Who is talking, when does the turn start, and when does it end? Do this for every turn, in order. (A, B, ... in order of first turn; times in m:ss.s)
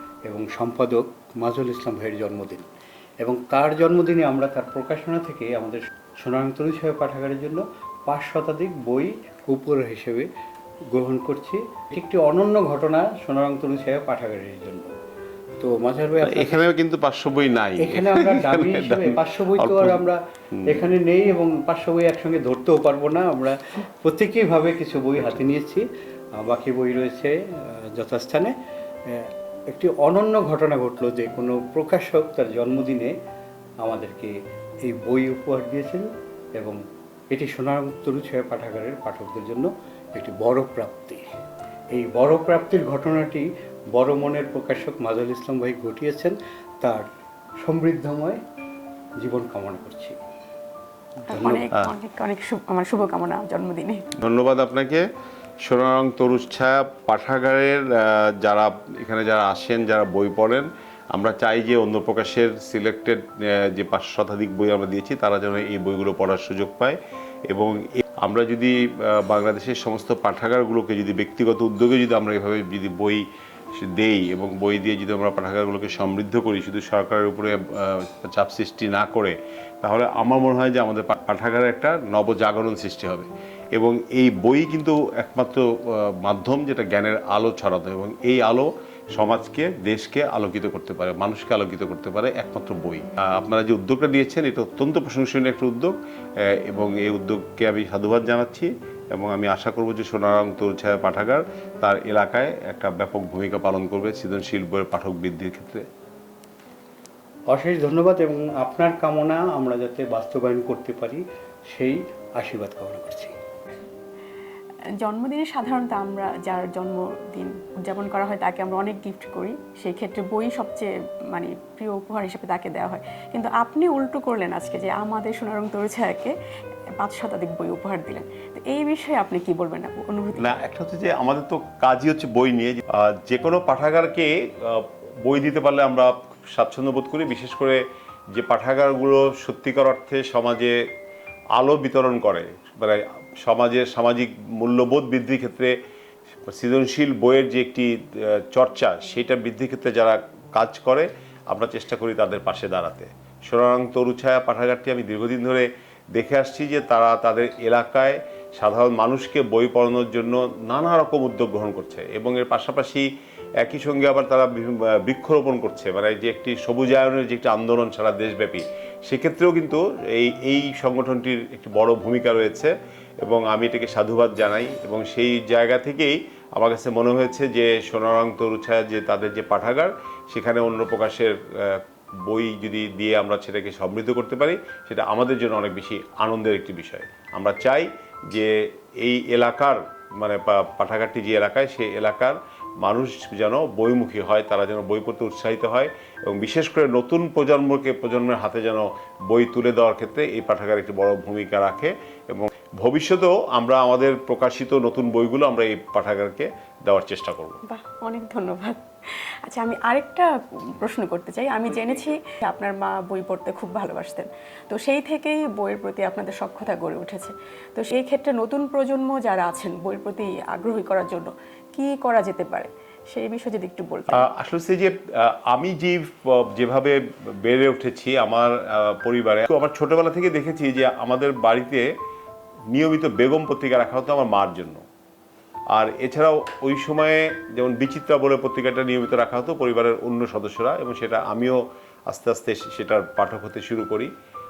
0:00.3-0:02.7 A
0:03.2-0:10.3 A
0:10.9-0:14.9 A
0:15.6-0:16.7 A
0:16.2-0:20.0 B
0:17.8-0:25.8 A
0:20.6-0:20.9 B
0:26.4-0:28.5 A
0:29.1-0:33.1 A
0:33.8-0:34.3 A
0:34.8-0:36.8 A
0:37.3-0:41.2 A
0:41.9-0:47.0 A
0:47.6-0:48.4 A
0:49.2-0:50.2 A
0:51.2-0:51.7 A
0:51.3-0:54.0 C
0:54.2-0:55.0 B
0:55.6-1:07.0 B
1:07.5-1:13.2 B
1:13.8-1:45.8 B
1:47.5-1:53.4 A
1:55.0-2:06.3 C
2:07.0-2:10.5 C
2:10.4-2:17.8 B
2:18.3-2:20.8 B
2:21.6-2:25.7 B
2:26.4-2:43.1 B
2:43.6-2:52.7 B
2:53.2-3:27.6 B
3:27.6-3:28.8 C
3:29.4-3:44.3 C
3:44.1-3:51.8 B
3:52.7-3:54.8 B
3:55.7-4:04.1 B